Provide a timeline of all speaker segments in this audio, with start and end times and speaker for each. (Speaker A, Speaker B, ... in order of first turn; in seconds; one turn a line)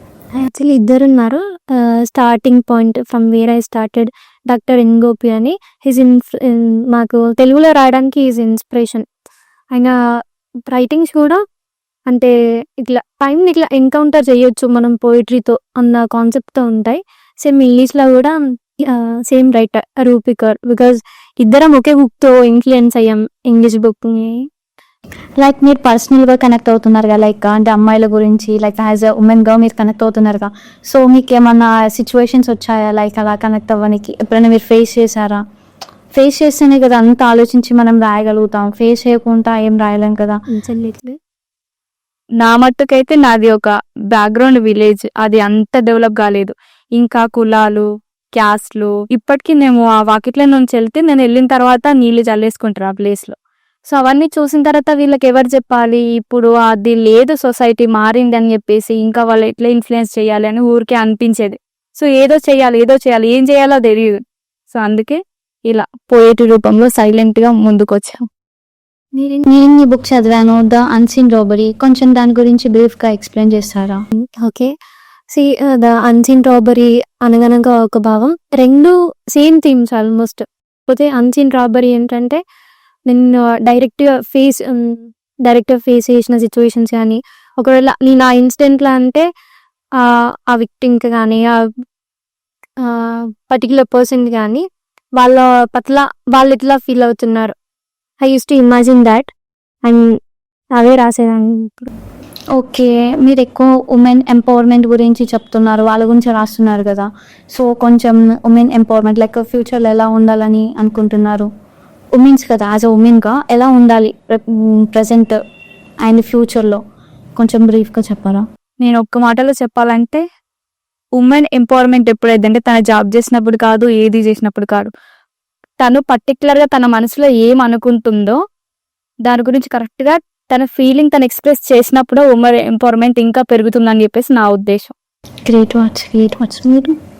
Speaker A: 0.3-9.1
Speaker A: 10.7-11.4
Speaker A: 12.1-24.4
Speaker B: 25.4-35.4
Speaker B: 36.1-40.4
Speaker A: 40.5-41.1
Speaker C: 42.4-53.3
Speaker C: 53.9-64.2
Speaker C: 64.7-68.2
Speaker B: 69.5-74.0
Speaker A: 74.4-74.7
Speaker A: 75.3-82.4
Speaker A: 83.1-89.2
Speaker A: 90.0-91.6
Speaker A: 92.8-94.6
Speaker A: 95.2-97.5
Speaker A: 98.2-99.3
Speaker A: 99.8-100.1
Speaker A: 100.8-101.9
Speaker B: 102.6-111.5
Speaker B: 112.1-115.4
Speaker B: 116.0-116.8
Speaker B: 117.4-118.4
Speaker C: 118.8-120.2
Speaker C: 121.2-124.9
Speaker C: 125.8-128.4
Speaker C: 129.2-134.9
Speaker B: 135.5-136.9